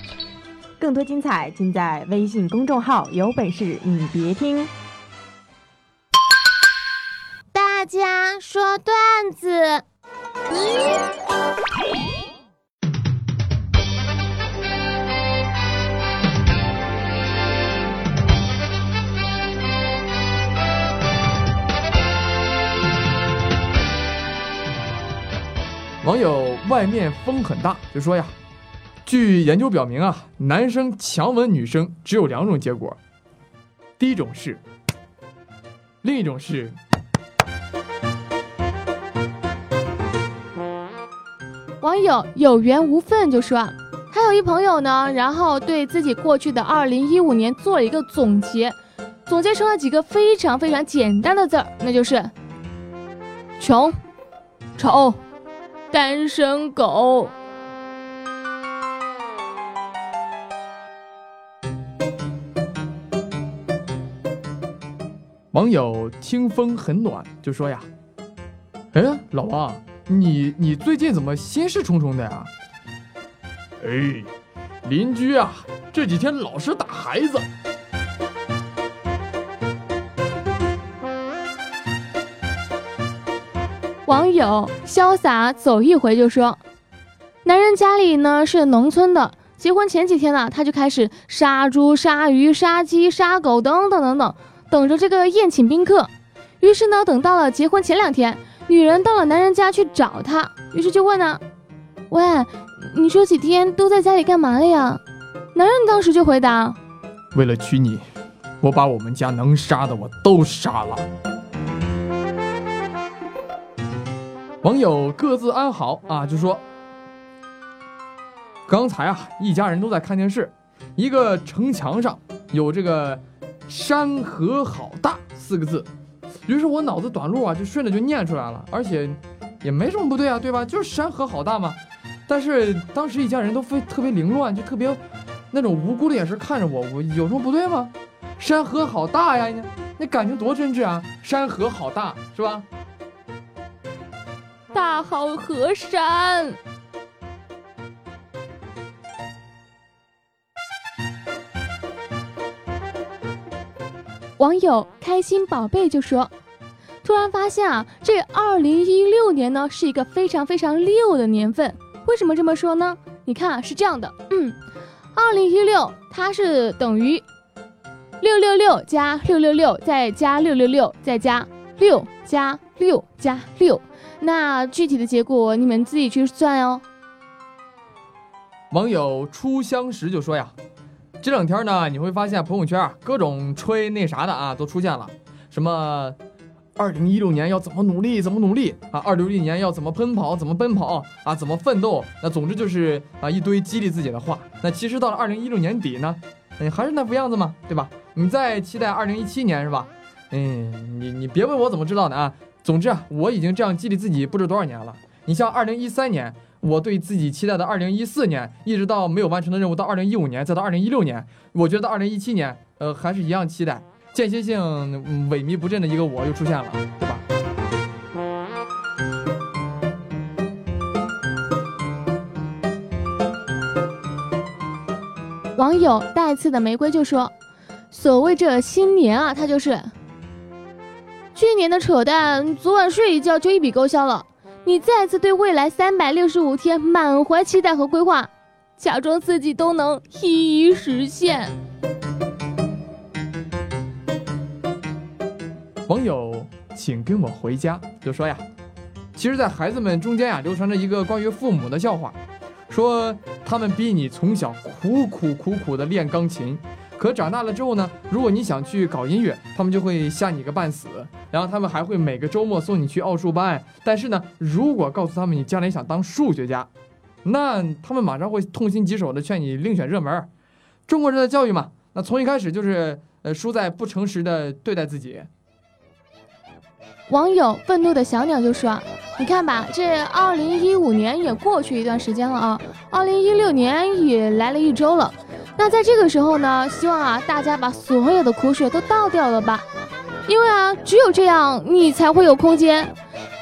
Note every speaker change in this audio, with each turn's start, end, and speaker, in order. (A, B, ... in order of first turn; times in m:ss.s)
0:00.8-0:04.7 A
0:07.5-0:09.8 B
0:26.0-0:28.3 C
0:29.0-0:33.0 C
0:34.0-0:34.6 C
0:36.0-0:36.8 C
0:41.8-0:52.3 B
0:53.6-0:54.0 B
0:54.8-0:55.2 B
0:55.9-0:57.3 B
1:05.5-1:07.9 C
1:08.9-1:12.5 C
1:13.8-1:14.3 C
1:14.8-1:17.5 C
1:24.0-1:26.6 B
1:27.4-1:36.1 B
1:36.6-1:41.4 B
1:42.1-1:45.0 B
1:45.5-1:46.8 B
1:47.3-1:48.0 C
1:48.6-1:51.0 C
1:54.6-1:56.6 C
1:58.7-2:05.9 C
2:06.4-2:15.0 C
2:15.5-2:22.6 C
2:24.7-2:26.6 B
2:34.4-2:36.3 B
2:37.0-2:44.6 B
2:45.1-2:47.2 B
2:48.2-2:56.8 B
2:58.7-3:00.5 C
3:01.2-3:06.2 C
3:06.8-3:37.2 C
3:45.6-3:47.3 B
3:47.9-3:49.9 B
3:51.3-4:01.5 B
4:05.9-4:08.4 C
4:09.1-4:12.2 C
4:12.7-4:26.7 C
4:27.2-4:30.3 C
4:30.9-4:35.3 C
4:37.1-4:49.6 B
4:50.2-4:52.9 B